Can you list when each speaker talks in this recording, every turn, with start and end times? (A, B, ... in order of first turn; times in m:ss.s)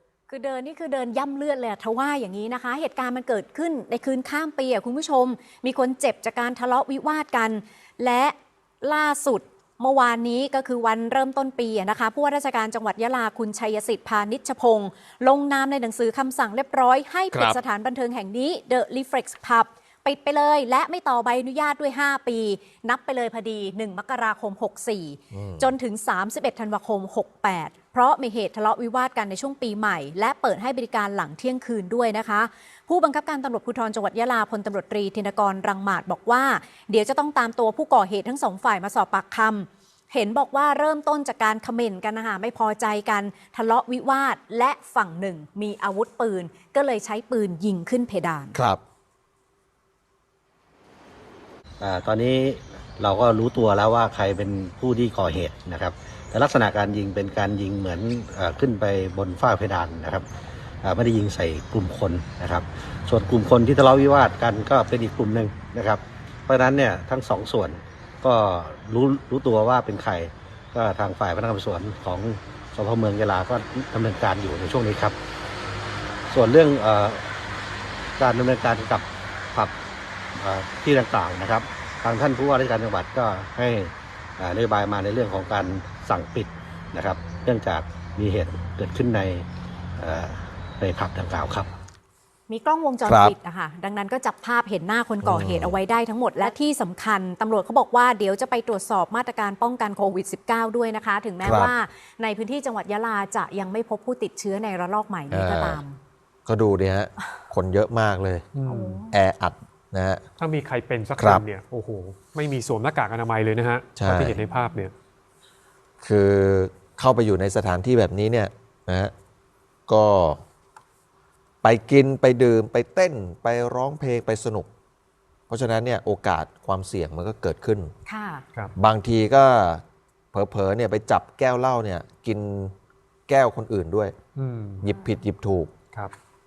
0:00.3-0:48.6 A
0:17.3-0:17.6 B
0:25.3-0:25.7 B
0:48.5-0:48.8 B
0:51.8-1:00.2 C
1:00.8-1:15.2 C
1:16.3-1:17.3 C
1:18.2-1:19.7 C
1:20.3-1:29.4 C
1:30.0-1:31.7 C
1:32.5-1:46.0 A
1:33.0-1:33.3 B
1:35.2-1:35.8 B
1:41.4-1:41.7 B
1:45.3-1:45.8 B
1:46.4-1:48.5 B
1:48.5-1:49.0 D
1:48.7-1:49.1 A
1:49.1-1:50.2 B
1:50.4-1:54.9 D
1:51.2-1:51.4 B
1:54.0-1:54.4 B
1:56.0-1:59.1 B
1:59.9-2:00.4 B
2:01.6-2:04.7 B
2:05.5-2:07.9 B
2:08.1-2:08.4 A
2:08.8-2:12.7 B
2:13.3-2:14.1 B
2:14.4-2:14.9 D
2:14.8-2:15.7 B